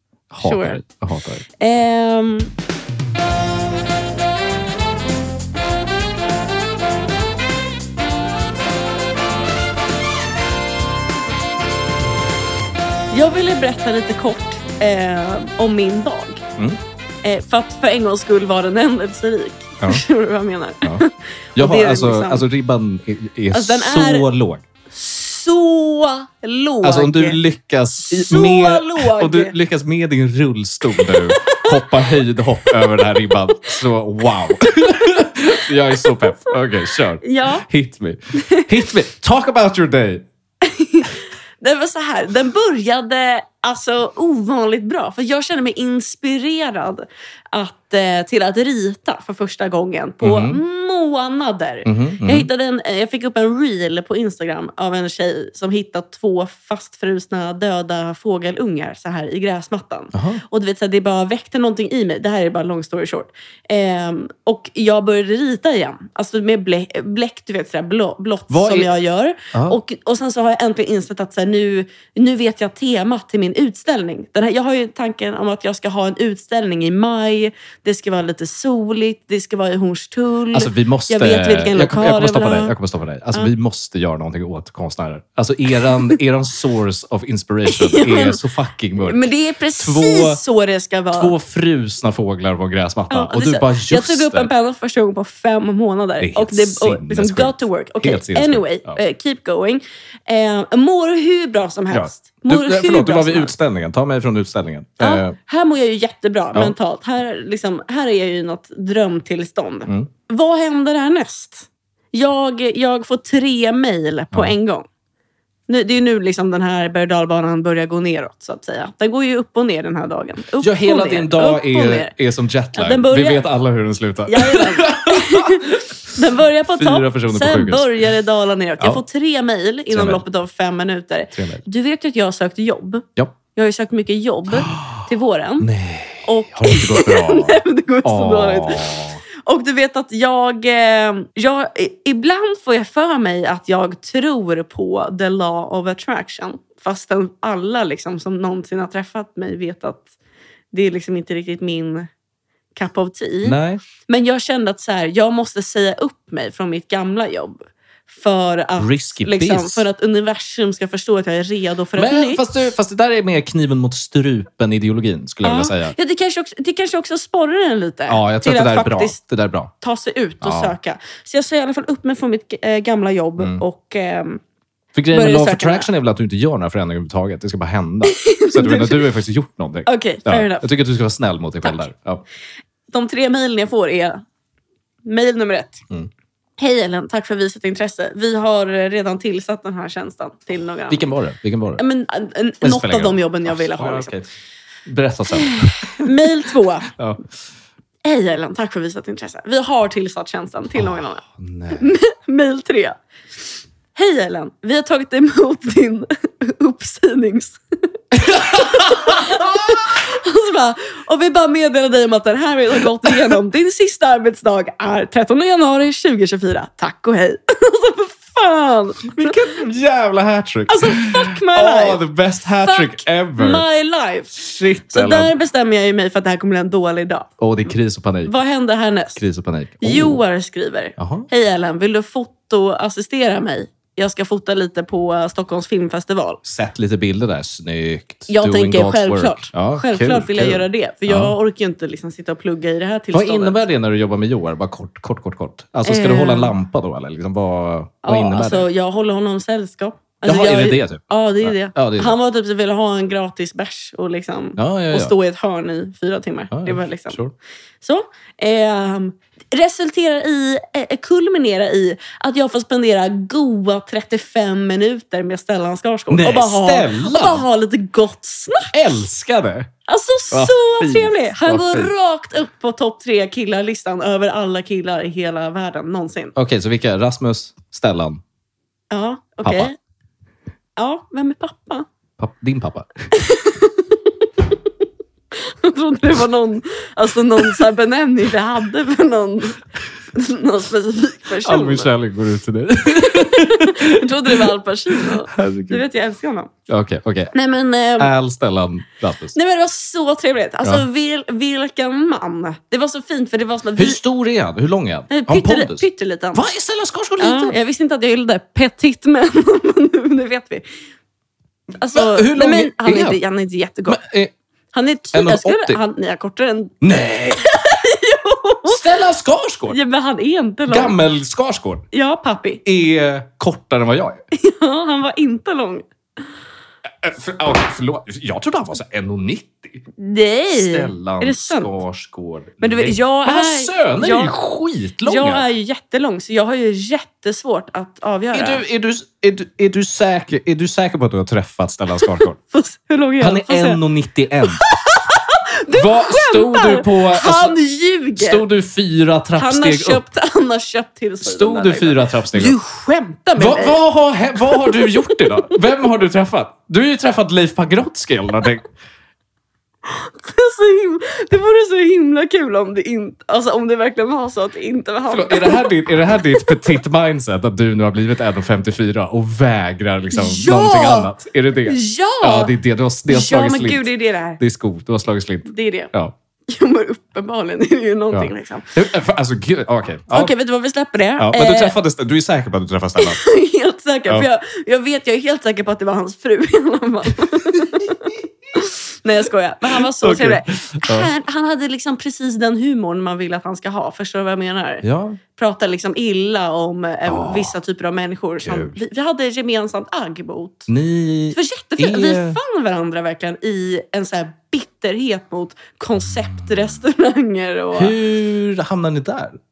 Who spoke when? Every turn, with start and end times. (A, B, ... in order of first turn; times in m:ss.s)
0:00.3-0:01.4 A
0:00.4-0:00.8 B
0:01.6-0:02.5 B
0:13.1-0:16.4 B
0:17.2-0:22.5 B
0:21.6-0:24.6 A
0:23.5-0:24.3 B
0:24.9-0:27.4 B
0:26.8-0:40.3 A
0:28.1-0:29.6 B
0:30.9-0:33.8 B
0:34.4-0:37.7 B
0:38.4-0:38.9 B
0:40.6-1:22.7 B
0:50.2-0:50.6 A
0:51.8-0:52.5 A
1:00.1-1:00.4 A
1:08.5-1:08.9 A
1:09.5-1:09.8 A
1:20.5-1:30.4 A
1:25.9-1:26.1 B
1:27.7-1:28.4 B
1:29.0-1:31.3 B
1:31.1-1:34.5 A
1:33.1-1:43.5 B
1:36.2-1:39.0 A
1:41.9-1:45.4 A
1:45.0-1:54.9 B
1:55.7-2:02.1 B
2:00.6-2:05.9 A
2:02.7-2:03.4 B
2:04.3-2:15.7 B
2:06.8-2:08.0 A
2:09.9-2:10.2 A
2:11.3-2:11.6 A
2:14.5-2:15.0 A
2:15.6-2:19.2 A
2:16.2-2:30.1 B
2:30.7-2:32.1 B
2:32.8-2:42.4 B
2:33.4-2:33.8 A
2:38.8-2:39.9 A
2:41.9-2:45.9 A
2:45.4-2:49.2 B
2:48.1-2:49.7 A
2:49.8-2:54.4 B
2:50.4-2:50.7 A
2:53.4-2:53.6 A
2:54.9-3:02.2 A
2:55.1-2:55.9 B
2:58.0-2:59.0 B
2:59.9-3:00.7 B
3:02.9-3:04.2 B
3:05.0-3:05.8 B
3:06.6-3:11.0 B
3:10.9-3:11.8 A
3:11.8-3:14.2 B
3:12.6-3:14.3 A
3:14.8-3:16.3 A
3:15.3-3:16.9 B
3:16.9-3:17.2 A
3:18.0-3:23.0 B
3:20.8-3:21.9 A
3:23.9-3:27.6 B
3:28.1-3:39.4 B
3:28.2-3:29.8 A
3:39.1-3:43.6 A
3:40.7-3:42.0 B
3:42.6-3:44.4 B
3:44.3-3:45.3 A
3:44.9-3:47.3 B
3:47.4-3:48.3 A
3:48.2-3:49.2 B
3:49.2-3:50.2 A
3:49.8-3:56.4 B
3:51.0-3:51.3 A
3:56.4-4:01.4 A
3:58.3-4:03.6 B
4:03.1-4:08.7 A
4:05.9-4:06.5 B
4:08.0-4:17.2 B
4:10.2-4:12.2 A
4:14.6-4:15.1 A
4:16.5-4:17.3 A
4:17.8-4:28.7 B
4:26.1-4:27.4 A
4:28.7-4:29.7 A
4:29.9-4:36.4 B
4:30.3-4:31.9 A
4:36.4-4:38.2 A
4:38.9-4:39.8 B
4:39.4-4:39.7 A
4:40.8-4:41.9 B
4:42.2-4:42.9 A
4:43.1-4:44.6 B
4:45.3-4:51.9 B
4:51.4-4:55.8 A
4:53.0-4:56.5 B
4:56.7-4:57.4 A
4:57.3-4:58.1 B
4:58.0-4:59.4 A
4:59.3-5:04.0 B
5:03.8-5:07.6 A
5:05.1-5:06.4 B
5:07.2-5:10.6 B
5:11.8-5:14.0 B
5:11.9-5:13.2 A
5:13.9-5:14.3 A
5:14.7-5:19.0 B
5:15.1-5:15.8 A
5:16.8-5:17.5 A
5:18.7-5:19.8 A
5:19.7-5:21.0 B
5:20.7-5:21.8 A
5:21.9-5:22.6 B
5:22.6-5:24.2 A
5:24.4-5:25.9 B
5:26.9-5:29.8 A
5:30.0-5:31.8 B
5:30.5-5:35.4 A
5:32.6-5:34.4 B
5:35.0-5:38.6 B
5:38.3-5:42.4 A
5:42.2-5:43.8 B
5:43.2-5:44.6 A
5:44.5-5:48.4 B
5:45.7-5:47.6 A
5:48.2-5:50.0 A
5:49.4-5:53.8 B
5:51.2-5:52.6 A
5:53.4-5:58.7 A
5:54.4-5:55.6 B
5:59.8-6:06.8 B
6:05.1-6:16.1 A
6:10.1-6:11.1 B
6:11.6-6:12.6 B
6:13.1-6:14.4 B
6:15.5-6:15.9 B
6:16.5-6:18.7 B
6:18.1-6:20.3 A
6:20.1-6:21.8 B
6:21.2-6:23.2 A
6:23.0-6:34.8 B
6:29.7-6:31.1 A
6:34.8-6:35.2 A
6:35.4-6:40.7 B
6:37.1-6:37.5 A
6:38.4-6:38.8 A
6:40.7-6:42.4 A
6:41.3-6:47.9 B
6:47.8-6:49.4 A